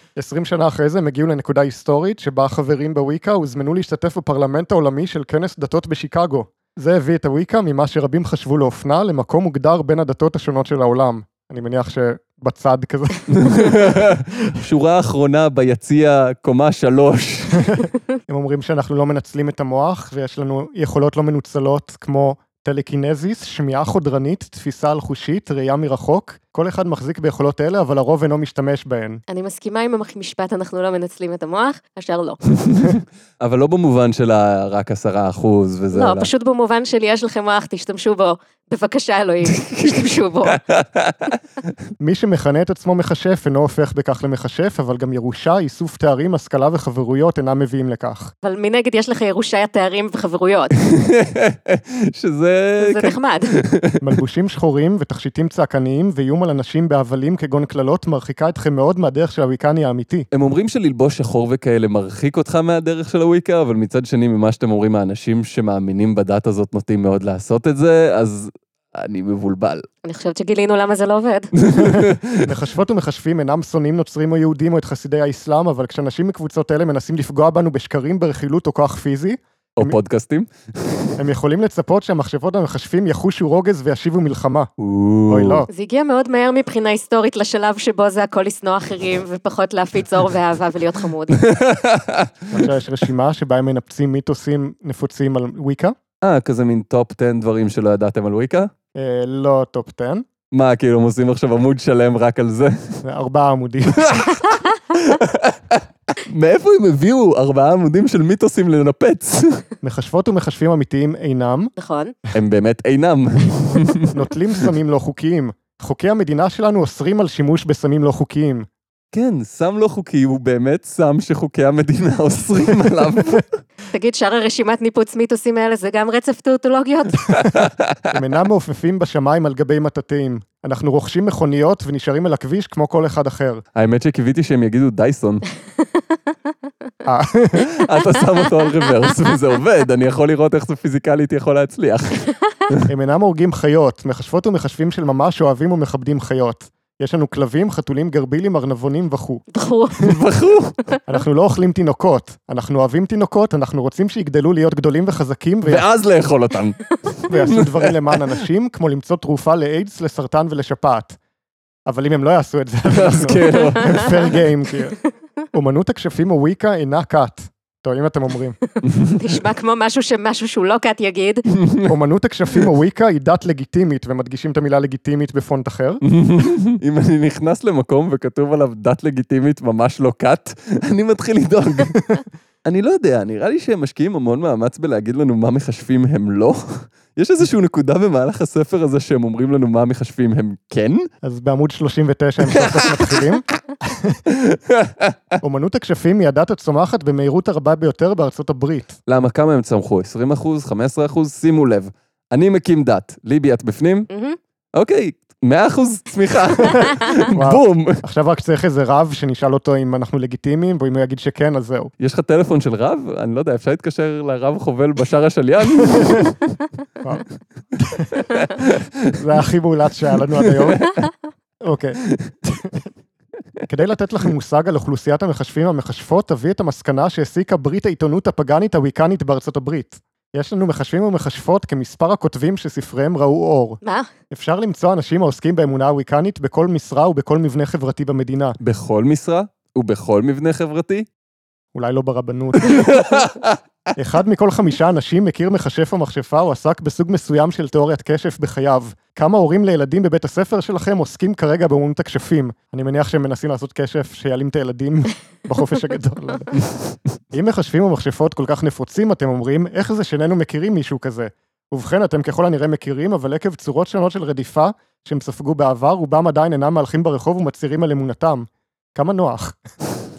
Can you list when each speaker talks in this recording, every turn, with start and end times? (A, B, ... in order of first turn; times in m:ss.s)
0:00.2-0:13.8 A
0:13.3-0:17.7 B
0:17.6-0:29.2 A
0:29.3-0:32.4 C
0:32.6-0:36.3 B
0:35.9-0:40.6 C
0:39.4-0:41.7 B
0:42.0-0:48.3 A
0:48.4-0:50.8 C
0:50.8-0:54.0 B
0:52.8-0:53.5 C
0:54.0-1:00.3 A
1:00.3-1:09.9 B
1:10.0-1:11.5 C
1:11.6-1:12.5 B
1:11.8-1:20.0 A
1:19.8-1:21.1 B
1:21.2-1:24.7 A
1:24.8-1:25.6 B
1:25.3-1:25.7 A
1:25.7-1:31.4 C
1:31.3-1:32.7 B
1:32.5-1:35.9 A
1:36.2-1:38.7 B
1:39.0-1:40.2 A
1:40.5-1:43.0 B
1:43.0-1:44.2 A
1:44.0-1:49.6 B
1:49.8-1:51.7 A
1:51.8-1:52.1 C
1:52.3-1:54.6 B
1:54.1-1:58.7 A
1:59.1-2:03.6 B
2:03.9-2:07.4 C
2:07.3-2:08.0 B
2:08.1-2:13.6 A
2:13.7-2:15.4 B
2:17.0-2:17.7 A
2:17.6-2:22.8 B
2:22.9-2:29.4 A
2:29.5-2:30.1 C
2:30.0-2:31.0 B
2:31.1-2:35.8 A
2:35.6-2:38.4 B
2:37.3-2:41.2 A
2:41.9-2:45.0 A
2:42.9-2:44.2 B
2:45.5-2:48.6 A
2:48.7-2:51.4 C
2:48.8-2:49.2 B
2:51.6-2:51.9 B
2:51.9-2:56.0 A
2:56.0-3:02.1 B
3:02.6-3:11.1 B
3:11.2-3:14.2 A
3:12.5-3:13.2 B
3:14.3-3:15.2 B
3:15.4-3:19.0 A
3:19.1-3:24.1 B
3:24.1-3:24.4 C
3:24.7-3:28.0 B
3:27.3-3:31.9 A
3:32.0-3:36.3 B
3:37.8-3:38.2 A
3:38.2-3:39.2 B
3:39.2-3:40.9 A
3:40.4-3:41.1 B
3:41.6-3:42.8 A
3:43.6-3:53.8 A
3:53.8-3:54.1 C
3:54.3-3:58.6 A
3:58.6-4:01.1 B
4:01.7-4:03.0 A
4:02.6-4:03.6 B
4:04.0-4:16.5 A
4:16.5-4:16.9 B
4:17.3-4:29.6 A